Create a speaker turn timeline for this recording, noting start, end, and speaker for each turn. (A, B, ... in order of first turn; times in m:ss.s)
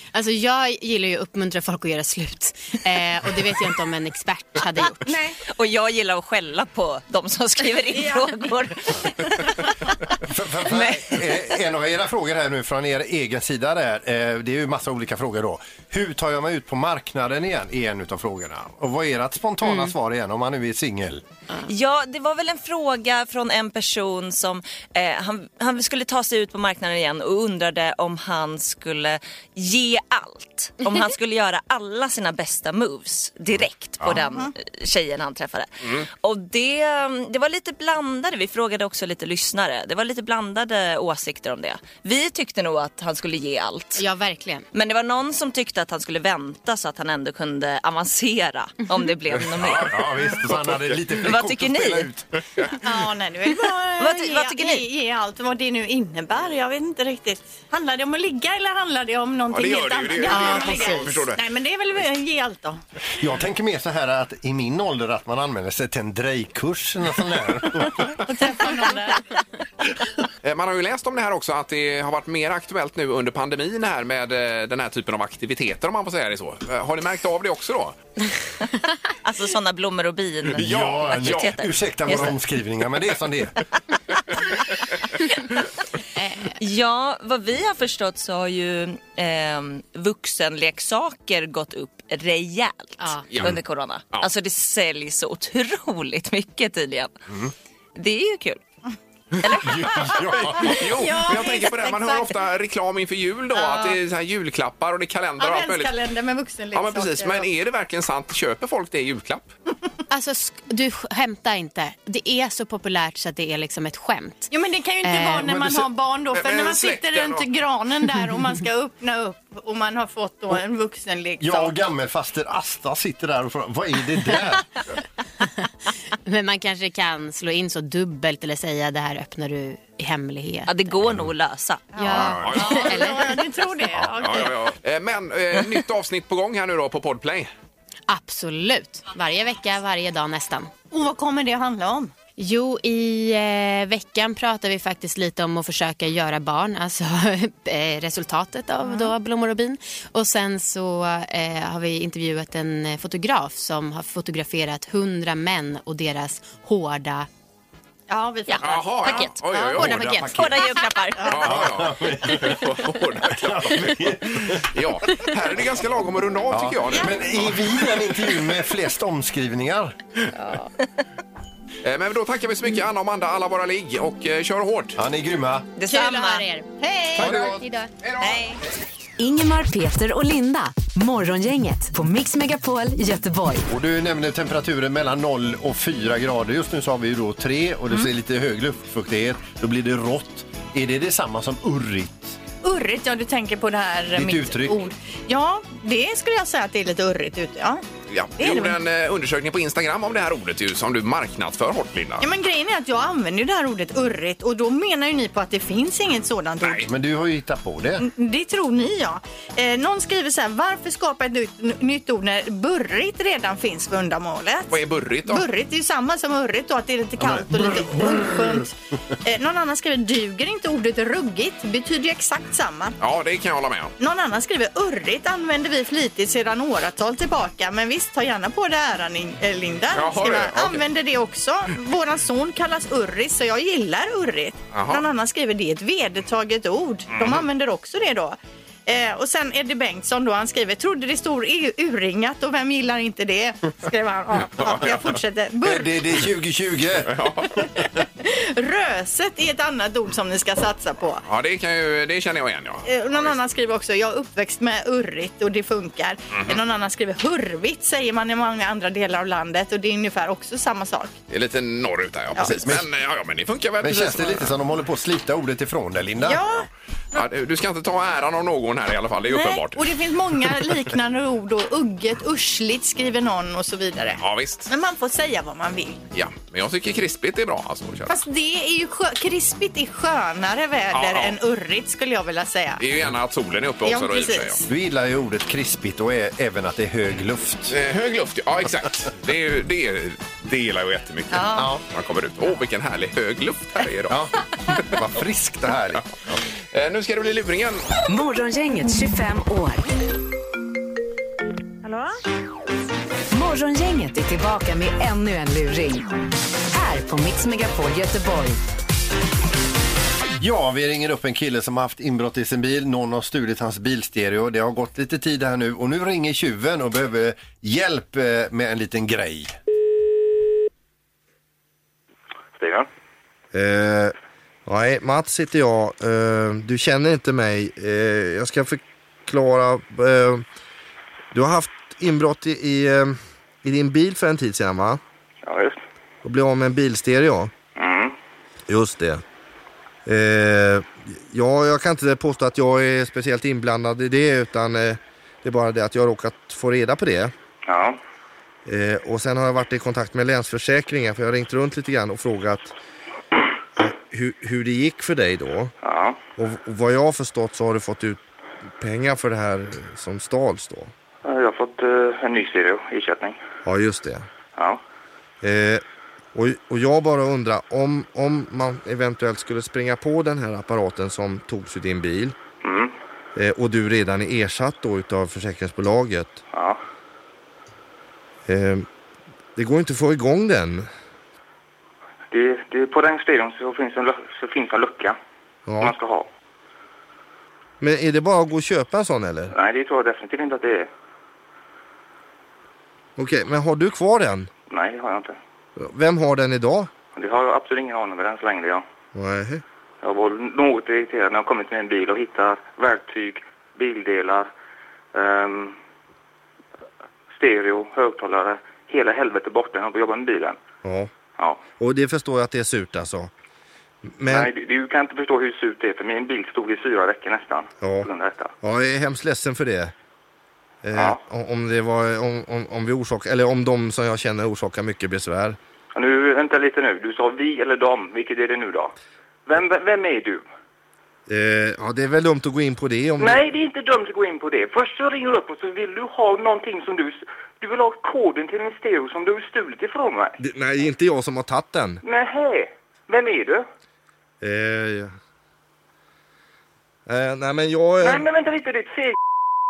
0:00.1-0:05.1 A
0:05.0-0:05.4 B
0:05.5-0:09.9 C
0:07.9-0:08.3 B
0:10.2-0:21.2 D
0:10.7-0:11.5 C
0:19.6-0:19.9 A
0:21.7-0:44.0 C
0:34.2-0:34.5 B
0:44.0-0:44.7 A
0:44.7-0:50.0 C
0:49.6-0:52.3 D
0:50.5-0:51.0 E
0:51.2-0:52.1 C
0:52.8-1:02.8 B
0:54.0-0:54.8 C
0:59.5-1:01.4 E
1:03.2-1:08.1 D
1:08.2-1:09.2 B
1:10.4-1:18.0 E
1:19.2-1:22.4 C
1:20.6-1:23.5 D
1:20.6-1:21.6 E
1:26.2-1:26.5 A
1:26.6-1:37.2 C
1:33.0-1:33.3 A
1:33.3-1:33.6 E
1:38.0-1:38.6 C
1:39.4-1:40.1 C
1:39.5-1:40.8 D
1:40.5-1:46.0 E
1:40.7-1:42.3 B
1:43.5-1:44.0 B
1:45.4-1:47.5 B
1:46.7-1:49.5 E
1:50.1-1:54.5 A
1:54.5-2:01.7 B
1:55.0-1:55.5 A
1:56.3-1:57.5 E
2:01.4-2:04.7 D
2:06.3-2:10.8 A
2:10.7-2:12.0 C
2:12.0-2:14.6 B
2:12.0-2:13.4 A
2:12.1-2:13.1 E
2:14.2-2:17.5 E
2:18.1-2:20.7 A
2:20.9-2:22.1 B
2:22.4-2:37.3 A
2:28.8-2:29.1 B
2:38.1-2:39.3 B
2:38.5-2:40.8 A
2:38.6-2:40.3 E
2:39.8-2:40.5 D
2:40.3-2:41.4 C
2:41.2-2:47.6 E
2:41.4-2:44.6 D
2:46.5-2:50.0 D
2:51.8-2:55.0 E
2:55.0-2:55.7 D
2:55.8-2:56.5 C
2:55.9-2:57.8 B
2:57.2-2:58.4 E
2:57.2-2:57.6 D
2:58.2-2:58.6 C
2:59.2-3:03.7 F
3:03.7-3:12.4 D
3:12.6-3:17.8 B
3:14.2-3:14.8 D
3:18.1-3:22.3 E
3:18.4-3:18.8 B
3:22.2-3:26.9 B
3:26.6-3:26.9 E
3:26.9-3:28.1 D
3:28.0-3:43.0 B
3:34.7-3:35.5 E
3:37.2-3:38.3 D
3:43.0-3:43.9 E
3:44.0-4:06.0 B
3:49.9-3:50.8 E
3:54.7-3:55.0 E
3:57.1-3:57.4 E
4:04.6-4:05.0 E
4:05.6-4:07.2 D
4:07.1-4:07.7 E
4:08.2-4:11.2 B
4:11.2-4:13.4 E
4:12.9-4:21.1 B
4:16.3-4:16.6 E
4:21.3-4:24.5 E
4:22.6-4:22.9 D
4:23.8-4:26.4 D
4:26.2-4:27.2 B
4:27.1-4:29.9 E
4:29.3-4:36.0 B
4:34.2-4:34.7 E
4:36.1-4:38.2 E
4:38.1-4:42.8 B
4:40.9-4:41.4 E
4:42.8-4:44.6 E
4:43.8-4:44.7 B
4:44.7-4:47.8 D
4:47.7-4:54.9 E
4:51.3-4:51.7 B
4:54.1-4:54.4 D
4:54.9-4:56.0 D
4:56.7-4:57.9 E
4:58.1-4:59.8 F
5:03.3-5:08.6 F
5:10.4-5:19.6 D
5:22.6-5:22.9 G
5:23.5-5:24.1 H
5:24.7-5:30.4 H
5:31.3-5:35.0 H
5:35.4-5:35.8 G
5:36.2-5:37.5 H
5:37.8-5:38.2 G
5:38.7-5:39.2 H
5:40.1-5:47.3 H
5:47.6-5:48.0 G
5:48.7-5:52.7 H
5:53.8-5:55.7 H
5:55.8-5:56.2 G
5:56.4-5:58.2 H
5:58.8-6:00.9 H
6:01.2-6:03.4 G
6:03.6-6:04.3 H
6:05.4-6:05.8 H
6:06.4-6:12.4 H
6:12.6-6:12.9 G
6:13.4-6:16.4 H
6:16.5-6:16.8 G
6:18.5-6:18.9 H
6:19.6-6:20.9 H
6:22.3-6:25.2 G
6:25.7-6:26.0 H
6:25.8-6:26.3 G
6:27.8-6:29.5 H
6:29.5-6:30.9 G
6:33.2-6:34.5 H
6:34.7-6:35.4 G
6:35.8-6:36.9 H
6:37.1-6:38.8 G
6:39.1-6:39.6 H
6:40.0-6:44.5 G
6:45.1-6:45.8 G
6:47.3-6:50.6 G
6:50.8-6:51.1 H
6:51.4-6:51.6 G
6:51.8-6:53.3 H
6:54.2-6:54.5 H
6:54.3-6:58.5 G
6:57.8-6:58.1 H
6:58.6-6:59.9 H
7:00.8-7:05.6 H
7:06.0-7:08.9 G
7:09.5-7:10.4 G
7:11.3-7:13.5 H
7:13.2-7:20.4 G
7:20.4-7:22.0 H
7:22.0-7:23.6 G
7:24.4-7:25.2 H
7:27.1-7:28.3 H
7:28.0-7:29.2 G